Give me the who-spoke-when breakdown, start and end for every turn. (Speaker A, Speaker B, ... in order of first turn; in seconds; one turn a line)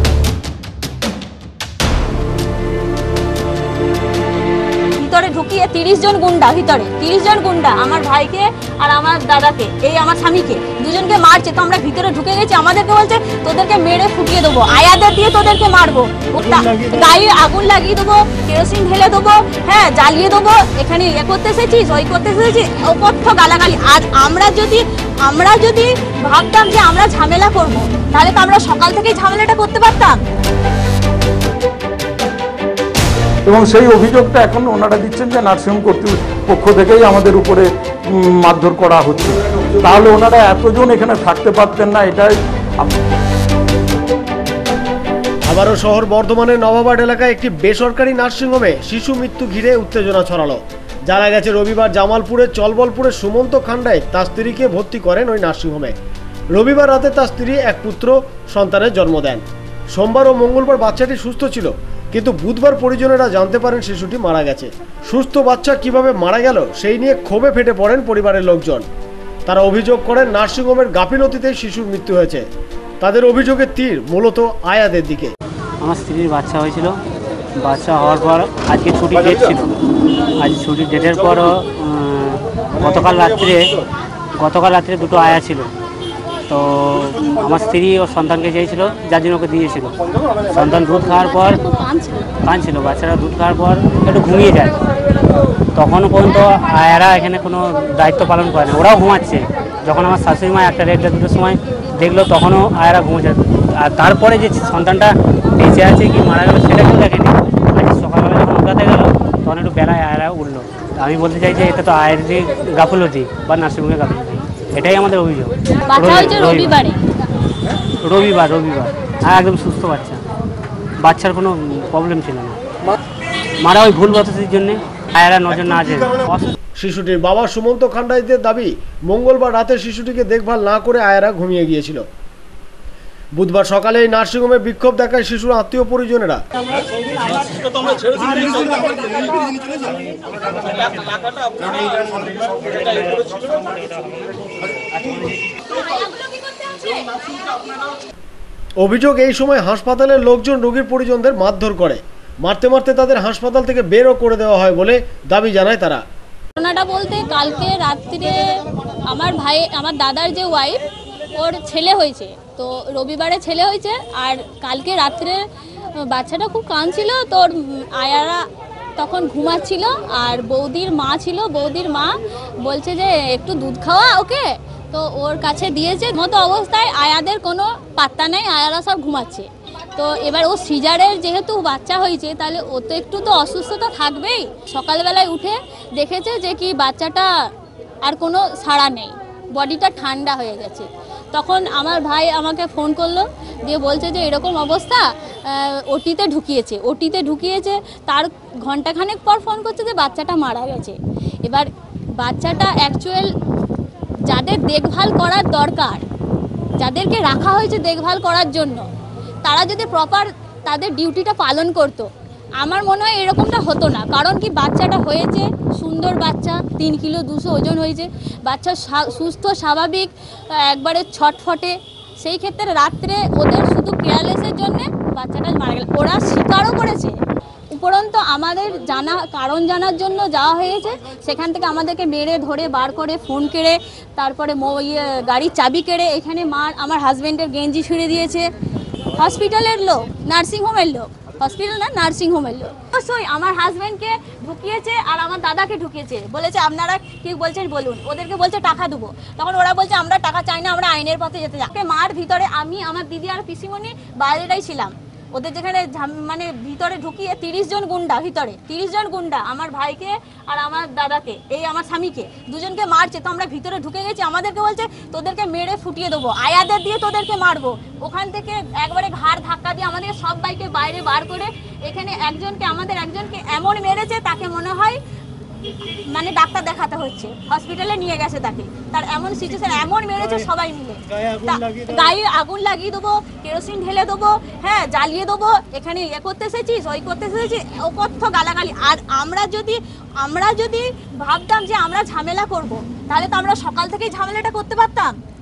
Speaker A: 5.0-30.2
Speaker B: 33.5-42.9
Speaker C: 45.5-55.9
Speaker C: 56.5-59.4
Speaker C: 59.9-68.8
Speaker C: 69.5-72.5
Speaker C: 73.0-75.3
Speaker D: 75.8-76.9
Speaker D: 77.6-79.8
Speaker D: 80.4-83.7
Speaker D: 84.4-85.7
Speaker D: 86.5-91.6
Speaker A: 91.5-92.3
Speaker D: 92.4-94.8
Speaker D: 95.7-116.8
Speaker A: 115.8-117.0
Speaker D: 118.0-120.2
Speaker D: 121.0-122.6
Speaker D: 123.6-126.5
Speaker C: 126.8-132.0
Speaker C: 133.3-136.4
Speaker B: 137.8-138.7
Speaker B: 141.1-141.6
Speaker A: 145.6-147.7
Speaker C: 148.8-156.0
Speaker A: 156.6-160.8
Speaker A: 161.3-165.4
Speaker A: 166.0-168.4
Speaker A: 169.0-187.3
Speaker A: 188.0-203.3
Speaker A: 204.3-206.0
Speaker A: 206.8-208.8
Speaker A: 209.4-212.1
Speaker A: 212.6-227.2
Speaker A: 227.7-238.5
Speaker A: 239.1-275.0
Speaker A: 276.1-295.1